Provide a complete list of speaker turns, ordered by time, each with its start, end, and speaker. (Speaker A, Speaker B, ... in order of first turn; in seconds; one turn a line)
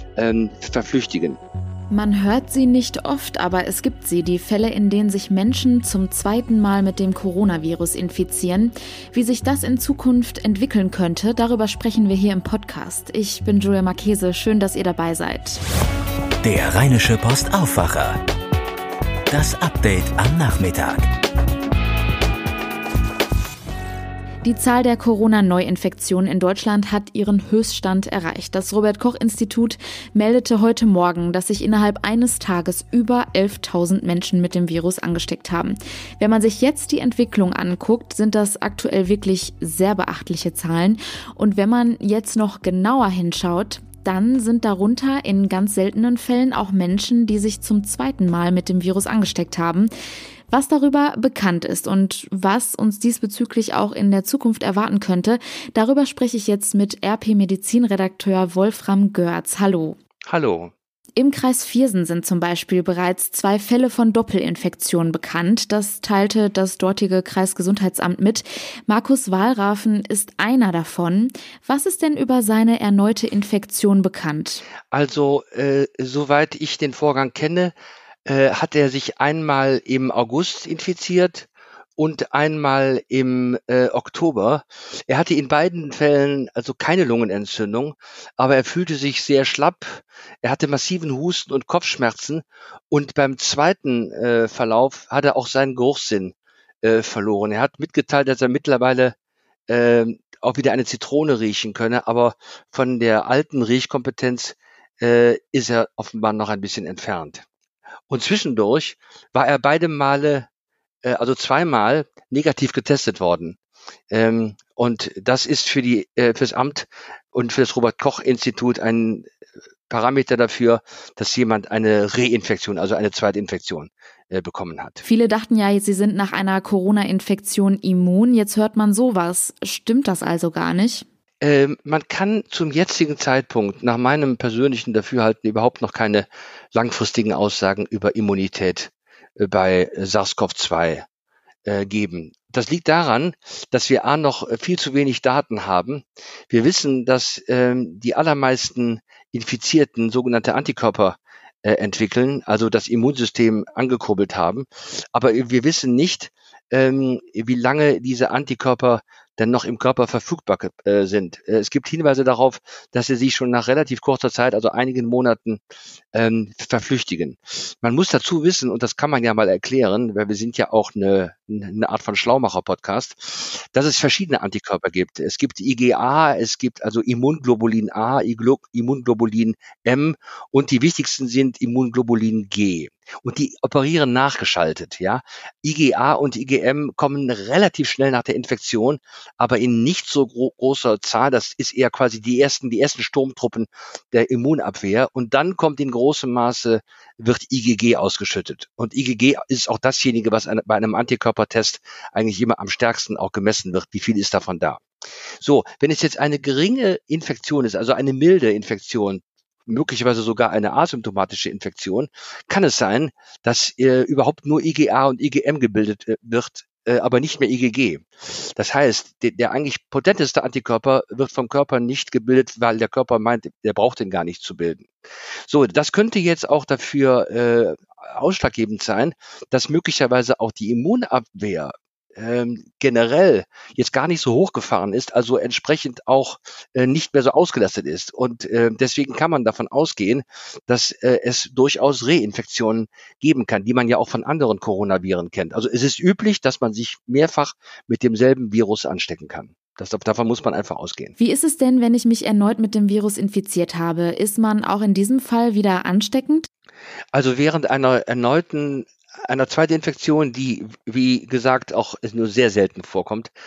Speaker A: 0.1-1.4
Speaker B: 1.9-15.6
Speaker C: 16.4-18.2
Speaker C: 19.3-21.1
Speaker B: 24.4-49.9
Speaker B: 50.5-60.0
Speaker A: 60.3-60.7
Speaker B: 61.2-74.6
Speaker A: 74.9-77.7
Speaker A: 78.2-99.1
Speaker A: 99.7-107.4
Speaker A: 108.1-110.5
Speaker A: 111.0-113.6
Speaker A: 114.1-119.3
Speaker A: 119.9-125.0
Speaker B: 125.0-131.0
Speaker A: 131.4-141.0
Speaker A: 141.7-165.6
Speaker A: 166.1-204.8
Speaker A: 205.4-224.8
Speaker A: 225.5-251.1
Speaker B: 251.2-256.5
Speaker A: 257.1-263.3